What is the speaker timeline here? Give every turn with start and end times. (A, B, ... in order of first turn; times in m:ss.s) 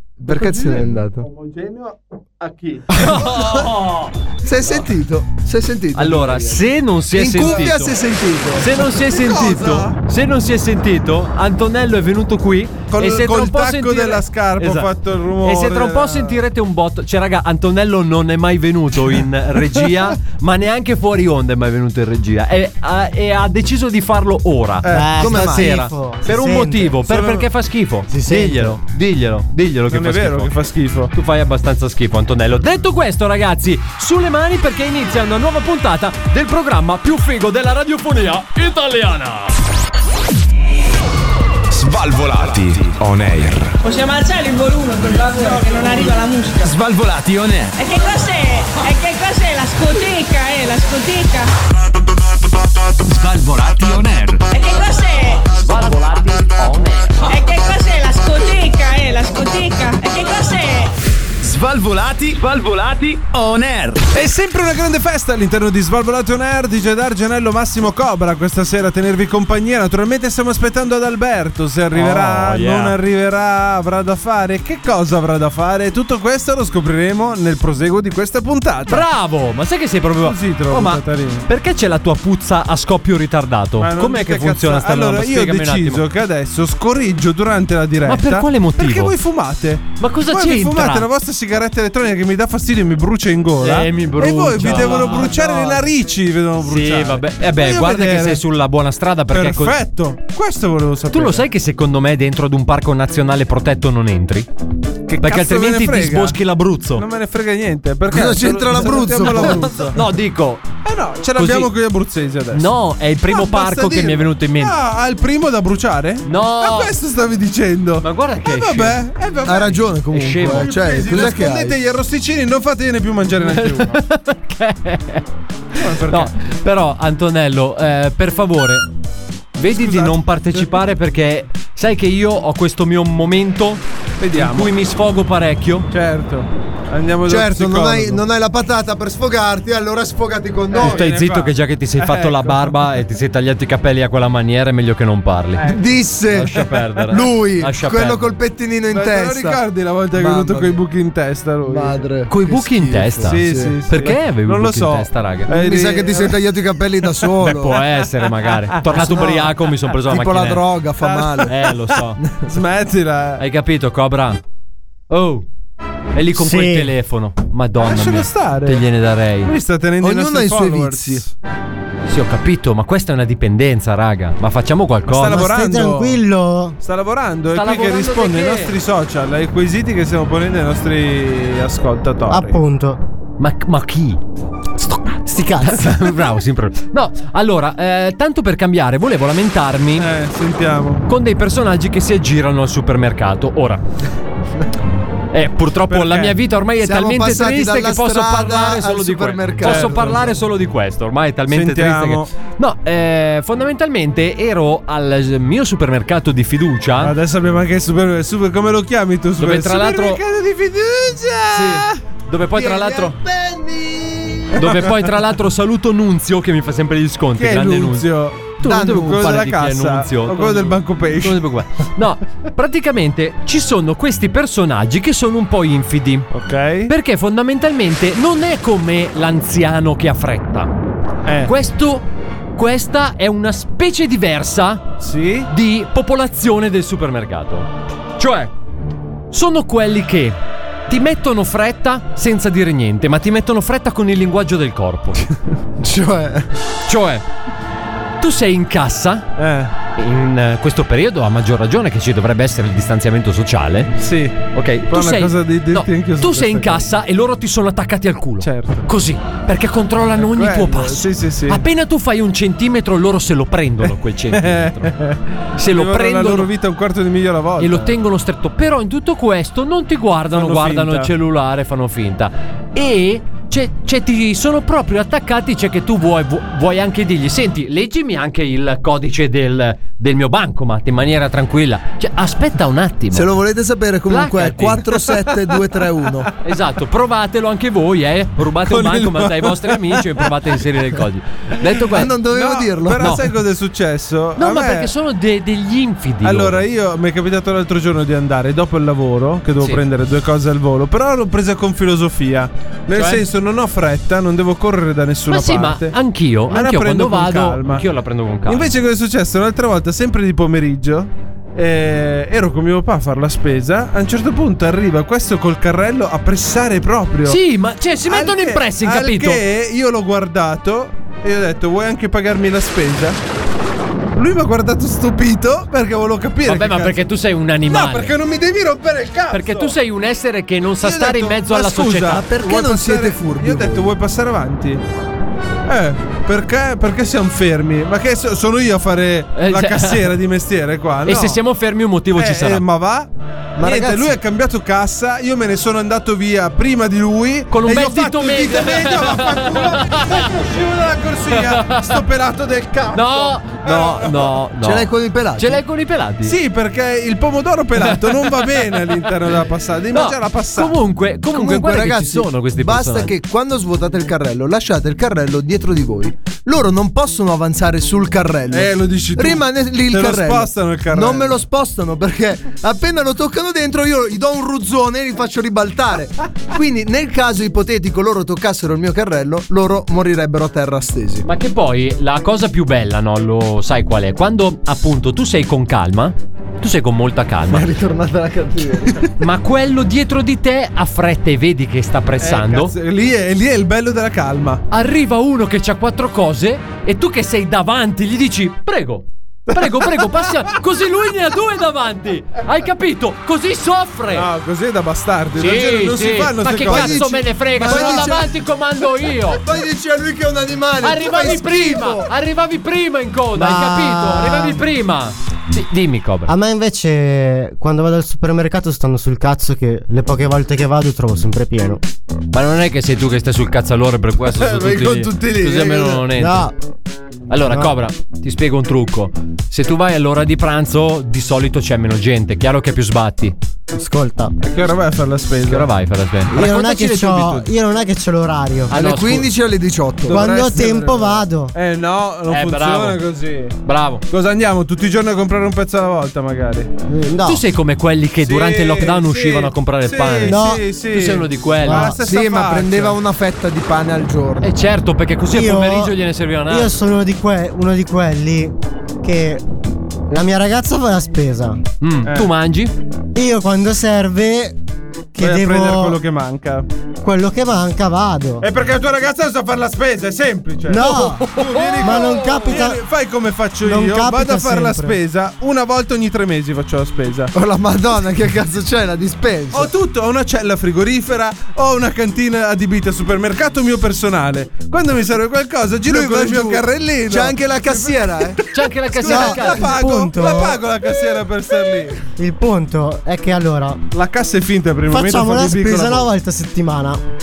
0:00.2-0:01.3 A
0:00.3-0:03.3 B
0:02.9-0:04.1 C
0:04.4-0:08.7 A
0:05.9-0:07.9 C
0:07.4-0:07.7 B
0:08.6-0:14.9 C
0:08.9-0:10.0 B
0:12.9-0:16.4 B
0:15.4-0:30.5 C
0:24.8-0:25.2 B
0:24.9-0:27.0 D
0:25.2-0:25.8 A
0:27.0-0:27.5 B
0:28.1-0:28.8 D
0:29.9-0:31.1 B
0:31.1-0:39.5 C
0:41.7-0:43.8 E
0:43.8-0:46.7 F
0:46.6-0:47.7 E
0:47.8-0:51.5 F
0:53.0-0:54.4 E
0:54.5-0:55.4 F
0:55.6-0:57.2 E
0:57.3-1:00.9 F
1:01.4-1:04.1 E
1:04.1-1:19.1 B
1:11.9-1:13.0 C
1:18.9-1:26.0 C
1:20.2-1:21.5 B
1:23.8-1:38.4 B
1:28.1-1:29.1 C
1:30.0-1:31.1 C
1:33.6-1:35.9 C
1:36.6-1:39.8 C
1:39.3-1:41.4 B
1:41.1-1:44.5 C
1:45.1-1:46.4 B
1:45.2-1:47.0 C
1:47.0-1:50.0 B
1:48.1-1:49.7 A
1:49.2-1:50.7 C
1:50.8-1:52.7 B
1:51.4-1:51.7 C
1:52.5-1:54.7 C
1:53.3-1:59.8 B
1:56.2-1:56.9 C
1:58.0-1:59.0 C
1:59.4-2:01.8 A
2:00.1-2:00.7 C
2:00.4-2:03.9 B
2:03.5-2:05.2 C
2:05.8-2:06.3 B
2:06.0-2:08.8 C
2:09.6-2:13.8 C
2:09.7-2:10.7 B
2:14.2-2:14.7 B
2:14.4-2:15.9 C
2:15.9-2:18.2 B
2:17.3-2:21.0 A
2:20.7-2:22.8 B
2:20.8-2:25.7 C
2:25.6-2:25.8 B
2:25.6-2:29.6 A
2:26.3-2:28.3 C
2:28.9-2:32.0 B
2:30.1-2:30.7 A
2:31.7-2:33.8 A
2:32.3-2:35.5 C
2:33.2-2:36.4 B
2:35.5-2:37.8 A
2:37.4-2:40.6 C
2:38.9-2:39.5 A
2:40.1-2:41.5 A
2:41.0-2:43.4 B
2:41.5-2:42.2 C
2:43.4-2:44.4 C
2:45.1-2:45.4 C
2:46.1-2:49.5 C
2:46.3-2:46.9 D
2:47.8-2:48.8 B
2:49.4-2:51.3 B
2:50.0-2:51.2 A
2:52.1-2:55.5 C
2:55.1-2:56.2 B
2:55.2-2:56.8 D
2:56.8-3:02.6 B
2:57.5-2:58.7 C
3:02.3-3:03.0 D
3:03.4-3:04.2 C
3:05.1-3:05.9 D
3:05.5-3:10.1 C
3:10.0-3:11.0 B
3:11.1-3:13.8 C
3:15.3-3:27.1 C
3:15.9-3:16.4 B
3:16.8-3:20.4 A
3:19.6-3:19.9 B
3:21.5-3:22.3 B
3:27.0-3:32.0 B
3:29.4-3:30.2 C
3:31.5-3:33.2 C
3:32.5-3:34.7 A
3:34.5-3:38.0 C
3:34.6-3:35.2 B
3:37.4-3:41.5 B
3:38.6-3:46.3 C
3:38.6-3:39.1 A
3:46.3-3:46.9 B
3:46.9-3:50.7 C
3:51.2-3:51.5 B
3:51.4-3:54.9 C
3:55.0-3:55.5 B
3:55.5-3:58.5 C
3:59.3-4:05.2 C
4:05.8-4:06.5 A
4:06.9-4:07.2 C
4:08.2-4:09.3 C
4:09.4-4:09.7 B
4:09.9-4:13.9 C
4:14.0-4:16.9 B
4:14.5-4:24.9 C
4:18.4-4:18.8 B
4:20.2-4:21.6 B
4:24.3-4:28.0 B
4:25.6-4:26.5 C
4:27.6-4:43.3 C
4:30.3-4:31.1 B
4:43.1-4:46.3 A
4:44.1-4:44.9 C
4:46.4-4:52.2 C
4:48.7-4:50.4 B
4:51.9-4:53.2 A
4:52.3-4:54.9 B
4:53.0-4:53.3 C
4:54.4-4:56.6 C
4:56.2-5:06.0 B
5:02.9-5:03.2 C
5:05.3-5:08.7 C
5:06.5-5:07.8 B
5:08.4-5:17.4 B
5:17.2-5:19.4 C
5:18.1-5:23.2 B
5:24.2-5:27.0 B
5:26.5-5:28.1 C
5:27.7-5:29.7 B
5:29.3-5:32.2 C
5:30.8-5:34.8 B
5:32.1-5:33.9 A
5:35.7-5:41.4 B
5:39.4-5:40.1 C
5:41.0-5:42.6 C
5:42.2-5:54.4 B
5:43.6-5:44.2 A
5:47.5-5:50.3 C
5:51.3-5:52.0 C
5:52.9-5:56.3 C
5:54.6-5:55.6 A
5:56.2-6:00.7 B
5:57.8-5:58.5 C
5:59.9-6:03.1 C
6:01.3-6:21.2 A
6:08.5-6:11.4 B
6:21.2-6:27.7 C
6:27.5-6:29.1 A
6:29.2-6:32.7 C
6:32.2-6:34.6 B
6:34.7-6:44.3 C
6:39.5-6:40.4 B
6:44.1-6:48.0 B
6:45.4-6:49.4 C
6:46.6-6:48.3 A
6:49.2-6:52.1 A
6:50.8-6:56.3 C
6:53.4-6:54.6 D
6:56.2-7:01.8 D
7:02.3-7:06.5 C
7:04.3-7:06.0 B
7:06.1-7:06.5 D
7:07.3-7:13.3 C
7:07.4-7:07.7 D
7:13.7-7:14.3 D
7:14.4-7:15.7 B
7:15.5-7:17.5 C
7:16.3-7:18.7 D
7:18.7-7:19.3 C
7:18.7-7:20.2 A
7:20.0-7:23.6 B
7:20.1-7:21.5 D
7:22.3-7:23.0 C
7:23.6-7:24.0 C
7:24.1-7:26.7 B
7:26.9-7:27.4 D
7:27.2-7:31.9 C
7:28.2-7:33.0 B
7:30.2-7:30.6 D
7:31.6-7:32.0 D
7:32.1-7:34.5 A
7:34.4-7:36.7 C
7:35.3-7:39.4 D
7:40.1-7:41.6 D
7:41.8-7:42.7 C
7:43.1-7:44.6 D
7:45.1-7:46.0 D
7:45.2-7:46.6 B
7:47.0-7:48.5 D
7:48.4-7:57.3 B
7:50.7-7:52.8 D
7:50.8-7:52.6 C
7:53.6-7:55.0 D
7:57.3-7:59.7 A
7:59.5-8:12.0 B
8:05.8-8:08.4 A
8:08.5-8:09.7 C
8:09.0-8:10.6 D
8:12.2-8:13.8 D
8:13.9-8:16.1 B
8:14.9-8:17.0 D